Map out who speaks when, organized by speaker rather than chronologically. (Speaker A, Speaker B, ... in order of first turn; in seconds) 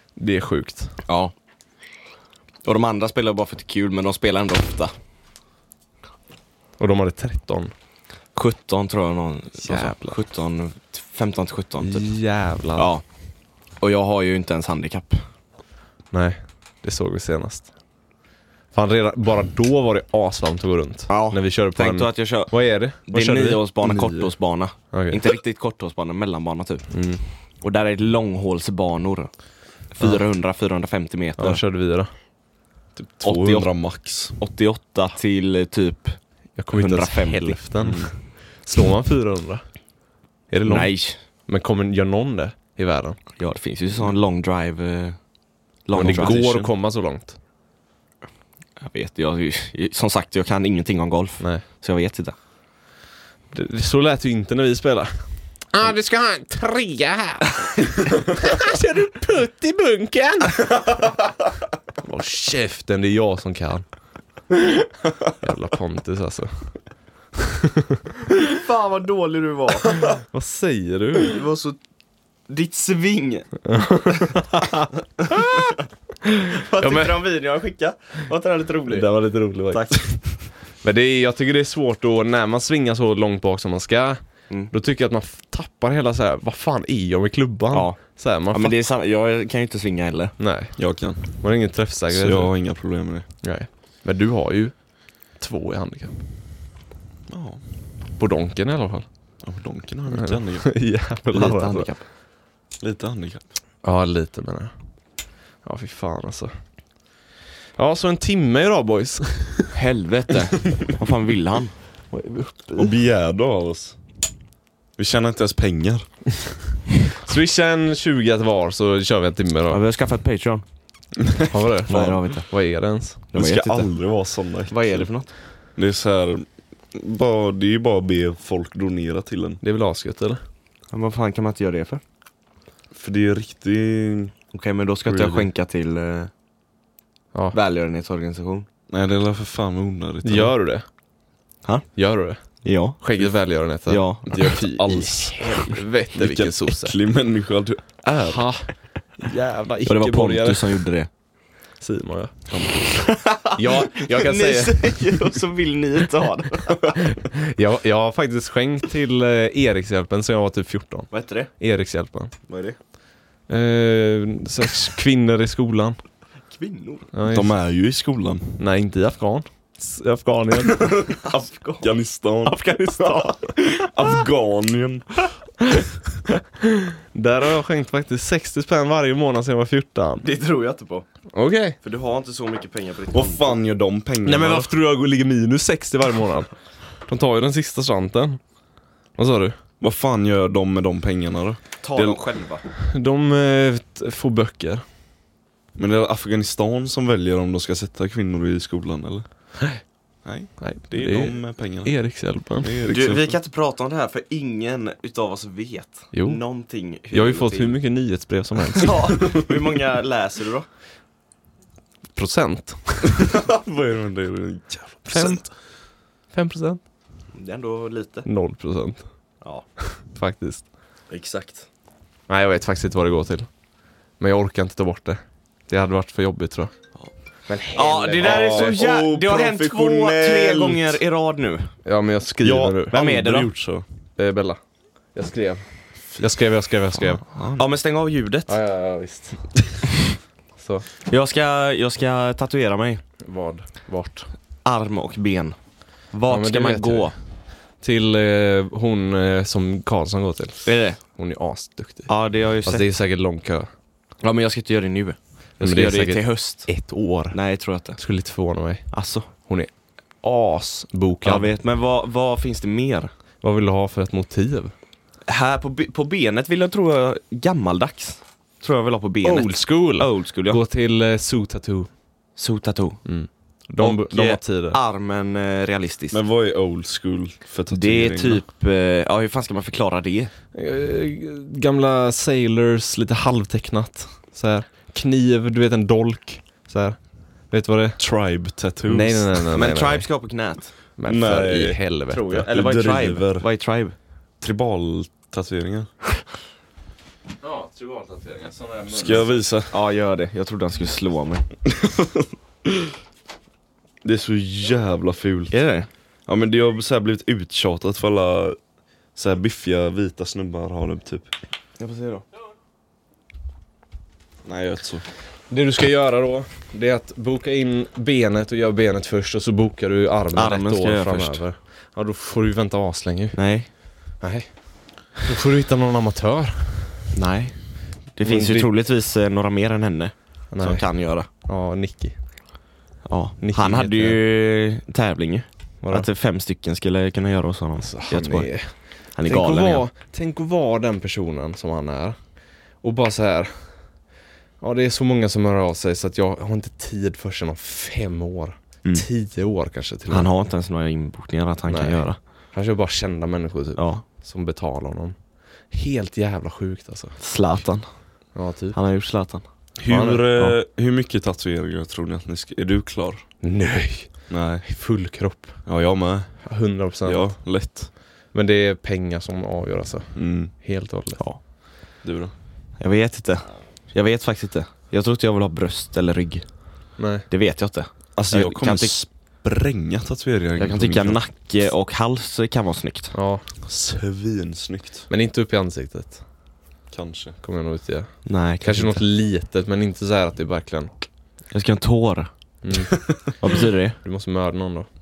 Speaker A: 0.2-1.0, 6.8-7.7, 9.6-10.2, 11.8-12.9, 16.1-17.7, 18.7-23.6, 24.9-25.2, 26.9-27.2, 31.4-32.1, 36.6-39.6, 40.5-43.2, 46.0-47.4, 53.5-61.1, 62.0-63.9, 65.3-66.7, 70.1-71.4, 73.7-75.8, 76.3-77.2, 78.9-80.2, 80.8-88.8, 90.4-92.7, 93.4-94.7, 95.3-96.2, 98.2-99.1, 100.1-101.9, 103.8-104.7, 105.6-106.5, 107.8-109.7, 112.1-113.0, 117.0-119.8, 121.5-123.3, 129.6-130.4, 140.2-140.8, 142.0-147.0, 148.1-150.8, 151.8-152.3, 153.6-155.2, 157.2-162.3, 163.5-166.0, 167.1-167.6, 168.6-171.2, 172.4-173.9, 176.6-180.2, 181.3-181.8, 184.2-186.5, 187.1-188.4, 189.2-189.6, 192.9-194.8, 200.6-202.8, 206.1-206.4, 207.1-209.3, 212.2-213.1, 215.1-215.5, 216.3-216.8, 218.3-219.1, 220.0-220.7, 222.3-223.5, 224.2-226.7, 227.9-228.7, 231.9-232.9, 234.2-234.6, 235.1-235.6, 236.2-237.3, 238.5-239.5, 240.6-240.9, 243.2-244.3, 246.3-247.1, 247.8-253.7, 255.6-257.4, 258.0-261.5, 263.4-264.7, 269.2-271.9, 273.1-274.8, 280.6-288.0, 288.9-290.1, 291.0-292.5, 297.4-299.4, 315.5-323.4, 324.2-327.1, 328.2-328.7, 330.5-332.2, 333.4-334.2, 335.8-336.1, 337.8-342.2, 342.8-343.9, 344.6-350.3, 351.7-355.2, 355.7-357.2, 358.4-358.8, 359.9-360.5, 363.4-365.6, 366.4-367.4, 368.3-371.2, 377.0-377.3, 383.1-383.4, 385.1-386.2, 387.4-390.9, 392.6-394.9
Speaker B: 1.1-1.3, 2.6-4.9, 8.3-12.1, 12.8-13.0, 13.8-15.2, 21.1-22.5, 23.1-26.9, 27.6-29.3, 29.9-31.6, 33.2-33.7, 34.4-36.2, 36.7-37.6, 40.7-41.2, 43.4-45.2, 45.9-46.7, 48.8-52.3, 68.4-70.0, 71.2-71.8, 72.5-73.5, 76.5-79.1, 79.7-80.0, 87.7-88.0, 88.5-90.3, 101.3-102.0, 109.7-111.7, 119.7-120.6, 121.9-122.5, 123.3-123.9, 124.7-125.3, 130.9-132.0, 134.5-136.3, 137.5-138.7, 142.6-143.0, 143.9-145.8, 149.9-151.1, 153.0-157.0, 161.1-161.5, 162.5-162.8, 166.5-167.1, 171.2-171.9, 180.2-181.1, 181.8-183.6, 191.8-192.6, 202.9-207.8, 208.8-210.7, 217.3-218.3, 221.1-221.7, 227.5-231.7, 232.9-233.5, 237.6-238.5, 241.1-243.0, 244.6-245.6, 246.1-247.2, 250.7-251.0, 252.1-252.9, 254.2-256.7, 257.3-258.0, 258.9-259.3, 261.2-263.1, 265.3-270.6, 272.4-273.0, 273.8-276.2, 277.7-280.3, 289.5-290.7, 292.1-293.9, 299.7-301.4, 305.5-305.9, 311.8-312.2, 320.4-321.4, 323.3-323.7, 327.1-331.3, 333.1-338.5, 339.1-339.9, 350.1-352.2, 353.8-354.0, 357.2-357.9, 358.7-359.4, 372.8-376.5, 377.3-379.0, 380.6-383.1, 388.3-389.0, 391.5-392.3, 393.4-394.0
Speaker C: 23.8-24.3, 33.0-34.4, 37.8-38.1, 90.8-91.2, 92.1-93.3, 97.3-97.6, 99.4-100.7, 102.8-103.5, 112.8-114.0, 115.0-116.1, 123.3-125.1, 125.7-129.6, 132.9-134.3, 135.1-135.5, 138.9-140.5, 144.3-144.6, 146.1-148.4, 152.5-153.1, 167.3-168.6, 171.8-172.6, 173.6-175.1, 183.1-184.7, 189.8-192.2, 195.8-199.3, 200.2-201.9, 202.6-203.3, 213.1-215.4, 228.0-231.0, 232.4-233.8, 237.3-237.6, 276.1-278.4, 288.0-289.4, 291.1-291.8, 292.5-293.5, 294.4-295.9, 298.9-299.7, 301.7-302.7, 304.0-305.5, 306.3-308.6, 309.1-311.3, 314.4-315.1, 359.8-363.2, 364.3-364.6, 365.7-366.4, 367.1-367.9, 370.1-370.5, 372.0-372.3, 378.2-381.2, 383.6-385.1, 386.9-387.4